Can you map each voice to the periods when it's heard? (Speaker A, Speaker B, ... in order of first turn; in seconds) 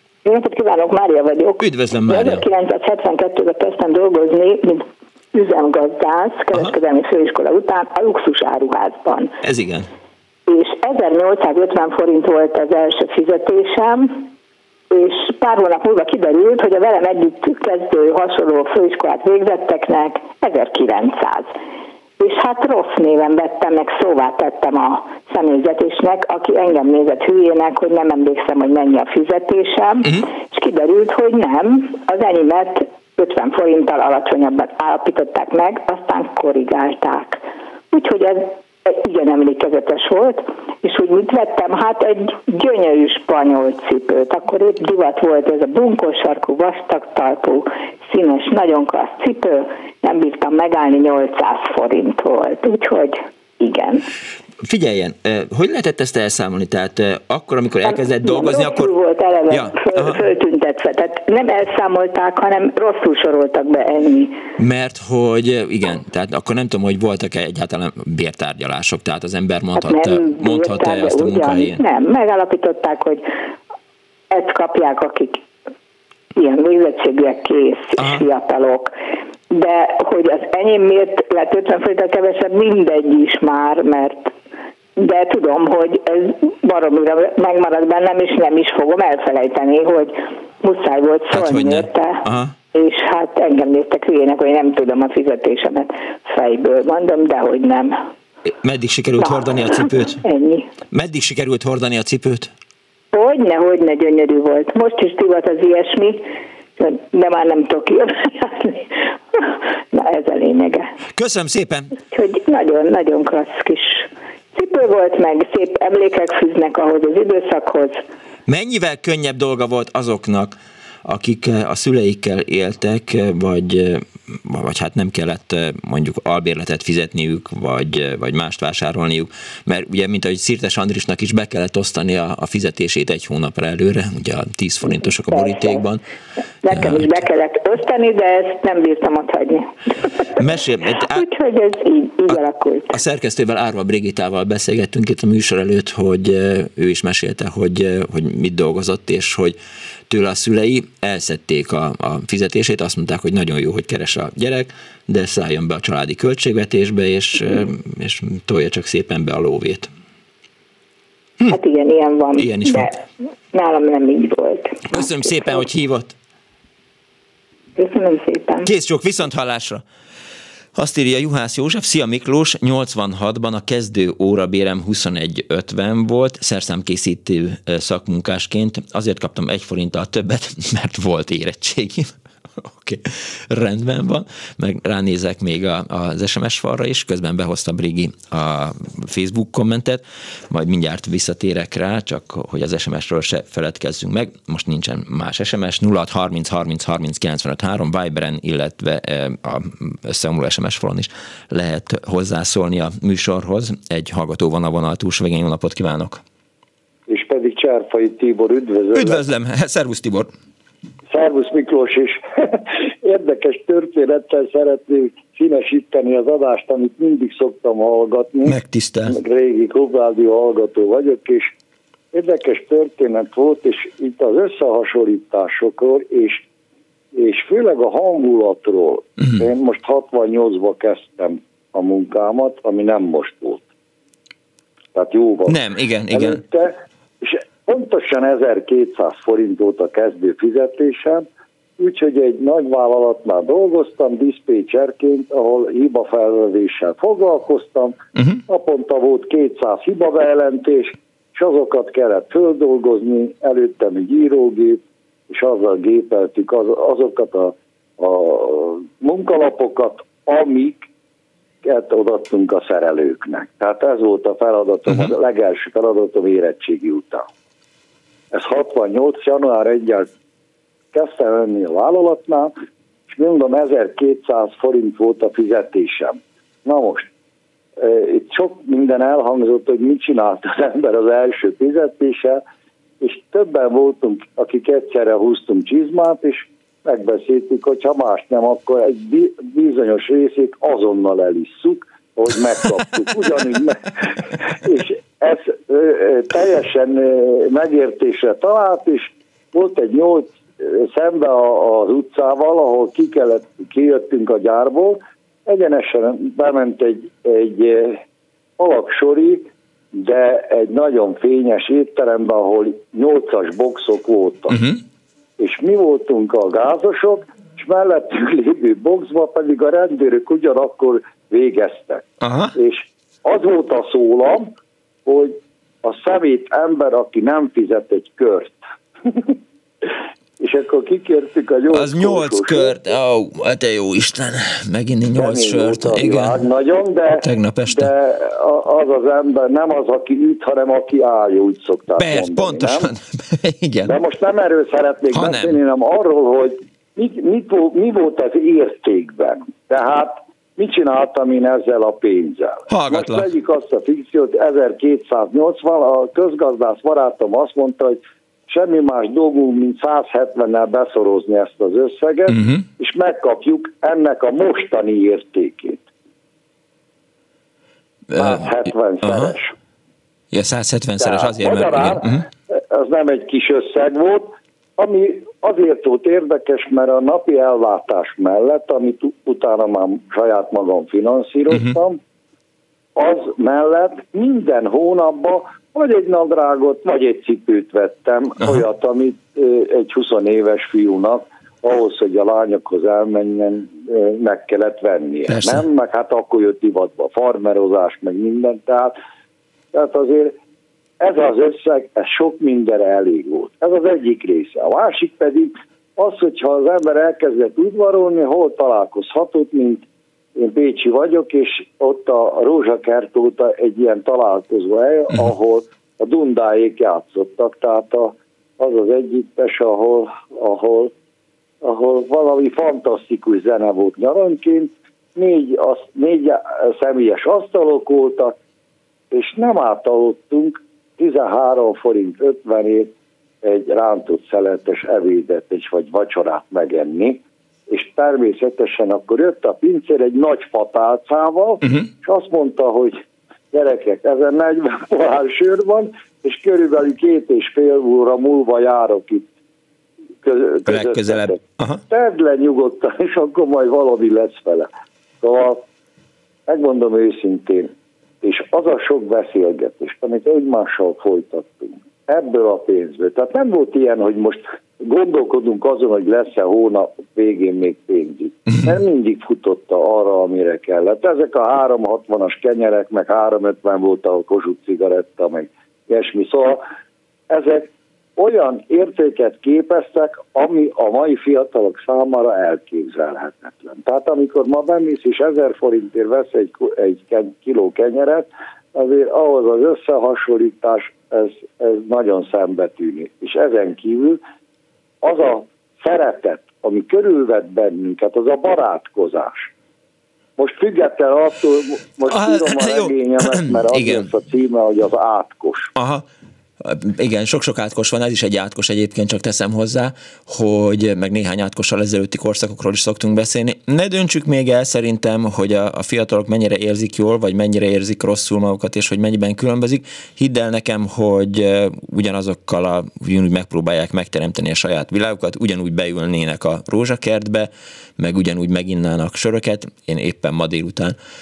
Speaker A: 0.2-9.3, 10.5-14.3, 14.9-21.5, 22.2-54.0, 57.8-64.4, 69.8-73.2, 74.3-75.4, 76.3-78.9, 79.5-84.3, 85.0-92.2, 92.7-98.0, 99.2-100.7, 103.1-106.2, 106.8-110.9, 112.1-118.0, 134.8-135.9, 136.6-140.5, 141.0-142.9, 161.5-163.0, 163.5-165.6, 167.8-168.7
Speaker B: 1.6-2.4, 9.4-9.9, 54.6-58.9, 59.5-60.2, 64.6-71.8, 78.0-78.2, 91.3-92.5, 98.6-100.2, 100.9-102.5, 111.1-111.9, 118.5-136.0, 136.7-137.2, 140.3-141.2, 142.3-149.6, 150.1-159.9, 162.3-162.9, 164.9-166.2, 168.6-169.8, 170.8-206.2, 208.9-210.3, 218.4-219.2, 235.5-236.4, 248.2-248.4, 314.5-314.8, 322.2-322.5, 331.7-336.4, 337.1-337.9, 342.0-343.9, 345.1-345.6, 352.7-353.3, 362.3-362.6, 368.1-369.3, 370.3-372.2, 381.5-381.8, 395.3-395.6, 450.6-451.8, 502.1-504.1, 505.8-506.0, 506.6-531.0
Speaker C: 207.1-209.2, 211.1-221.5, 222.1-226.4, 227.1-233.6, 234.9-241.2, 241.8-248.0, 248.5-260.9, 261.6-267.3, 268.3-270.1, 270.9-272.5, 273.1-277.1, 277.8-282.4, 283.0-308.0, 308.6-314.6, 315.4-324.5, 325.0-329.4, 330.4-332.8, 335.1-342.9, 343.9-365.8, 368.1-369.5, 371.0-382.0, 382.9-398.9, 399.7-400.4, 401.0-409.8, 410.4-420.9, 421.6-428.3, 429.1-432.9, 433.4-443.0, 443.5-449.3, 450.2-454.7, 455.2-455.6, 456.5-476.6, 477.3-494.2, 495.0-499.5, 500.4-505.7